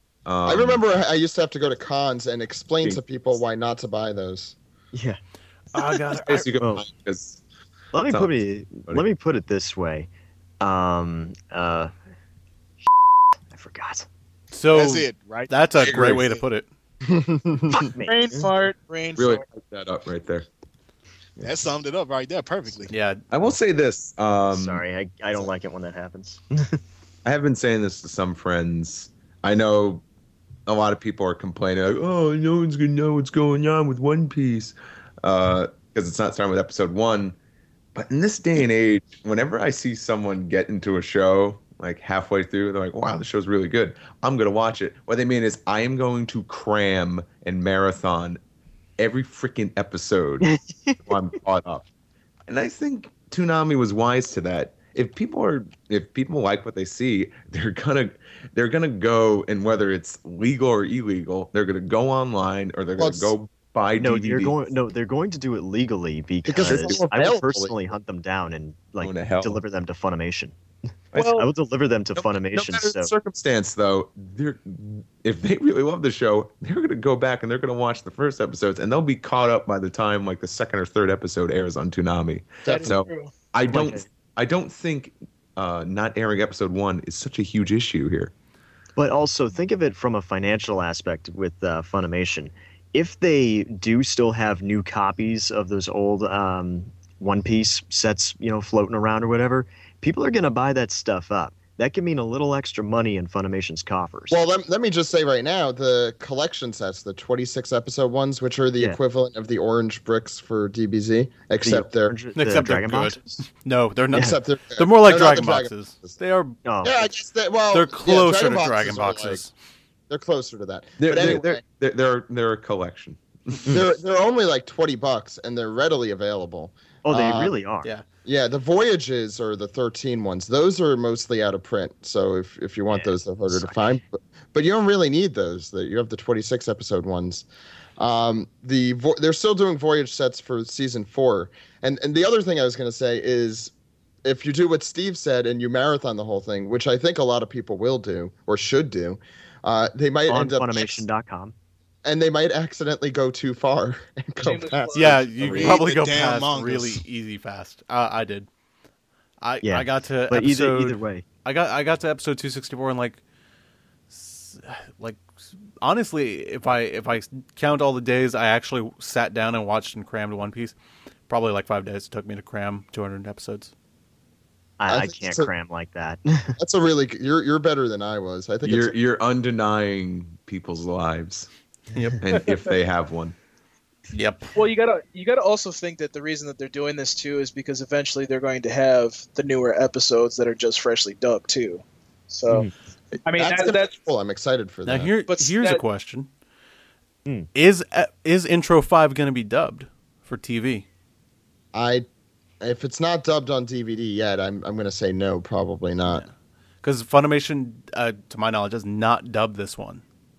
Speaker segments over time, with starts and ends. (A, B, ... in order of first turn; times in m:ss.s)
0:00.3-0:00.8 A
0:00.5-0:04.6 B
0:04.9-0:05.2 C
0:05.7-0:06.5 D
0:06.1-0:07.4 A
0:06.6-0:06.8 C
0:07.9-0:10.1 C
0:08.0-0:09.0 A
0:10.6-0:11.9 C
0:13.5-0:14.1 C
0:14.5-0:16.7 D
0:14.7-0:15.7 E
0:15.8-0:16.2 A
0:17.1-0:17.9 B
0:17.8-0:18.2 C
0:18.0-0:19.4 F
0:19.2-0:20.5 A
0:21.4-0:22.9 E
0:22.9-0:23.2 D
0:23.3-0:24.8 A
0:24.5-0:26.8 C
0:27.2-0:30.0 A
0:30.7-0:37.4 A
0:38.0-0:48.4 A
0:49.0-0:50.5 A
0:50.4-0:51.0 C
0:51.1-0:51.8 A
0:52.5-1:04.6 A
1:03.0-1:03.3 B
1:04.0-1:10.6 C
1:06.5-1:07.7 B
1:06.6-1:07.2 A
1:09.0-1:09.6 A
1:11.1-1:11.4 A
1:11.2-1:11.5 F
1:11.2-1:13.1 C
1:12.2-1:28.3 A
1:22.7-1:23.3 F
1:23.7-1:24.1 C
1:29.0-1:44.4 C
1:44.3-1:52.2 B
1:51.6-1:53.4 C
1:52.4-1:56.6 D
1:54.1-1:56.2 B
1:54.1-1:54.4 C
1:56.6-1:57.0 C
1:56.8-1:59.4 B
1:57.7-1:59.5 D
2:00.1-2:01.6 B
2:01.0-2:03.8 A
2:03.7-2:07.6 B
2:07.0-2:07.9 C
2:08.2-2:17.5 B
2:13.5-2:13.9 C
2:18.0-2:23.7 B
2:24.2-2:31.0 B
2:30.3-2:31.6 C
2:32.0-2:35.2 B
2:34.4-2:35.2 F
2:34.9-2:38.5 D
2:35.4-2:37.0 E
2:39.4-2:43.2 D
2:39.6-2:41.2 C
2:44.1-2:45.2 D
2:45.8-2:50.8 D
2:51.3-2:53.7 D
2:54.8-2:56.6 C
2:54.9-2:55.5 B
2:56.6-2:59.0 B
2:58.6-3:01.5 A
3:01.9-3:02.2 D
3:02.2-3:03.4 A
3:04.1-3:04.5 D
3:04.6-3:12.7 F
3:13.3-3:13.9 F
3:13.4-3:15.1 B
3:14.9-3:16.3 D
3:15.3-3:15.8 F
3:17.5-3:20.8 D
3:21.7-3:22.1 B
3:22.6-3:26.2 B
3:26.8-3:30.0 D